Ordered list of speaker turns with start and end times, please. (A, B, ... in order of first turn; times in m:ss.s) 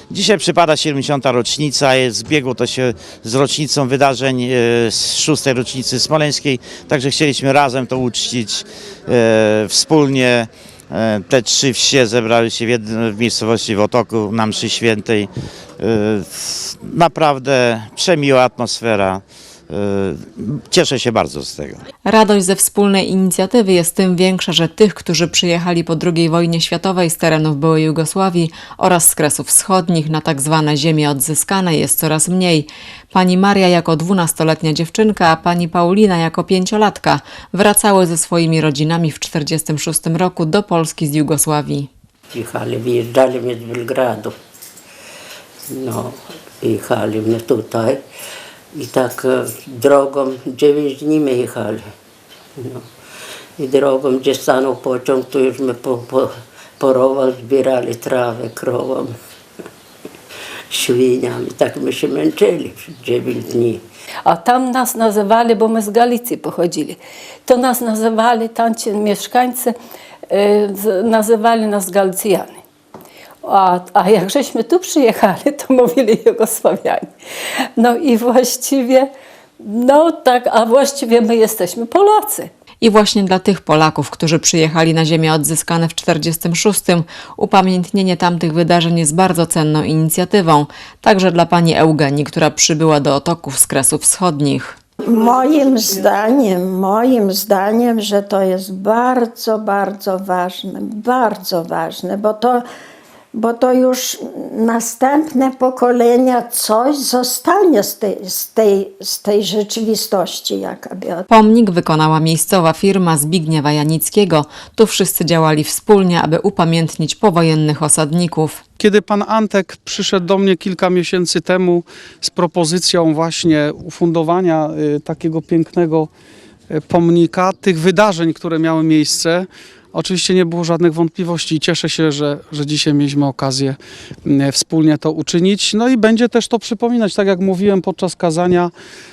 0:00.1-0:21.8 A
0:22.0-0:41.9 B
0:42.3-0:44.3 C
0:45.7-0:48.0 C
0:48.7-0:51.8 C
0:52.6-0:52.8 C
0:53.6-0:59.1 C
1:00.7-1:03.8 C
1:04.2-1:09.7 D
1:10.3-1:12.6 D
1:13.4-1:17.1 D
1:17.8-1:19.1 D
1:19.6-1:22.5 D
1:22.8-1:34.7 B
1:35.1-1:42.6 E
1:43.3-1:51.3 E
1:51.3-1:58.6 B
1:58.8-2:06.1 F
2:06.7-2:18.7 F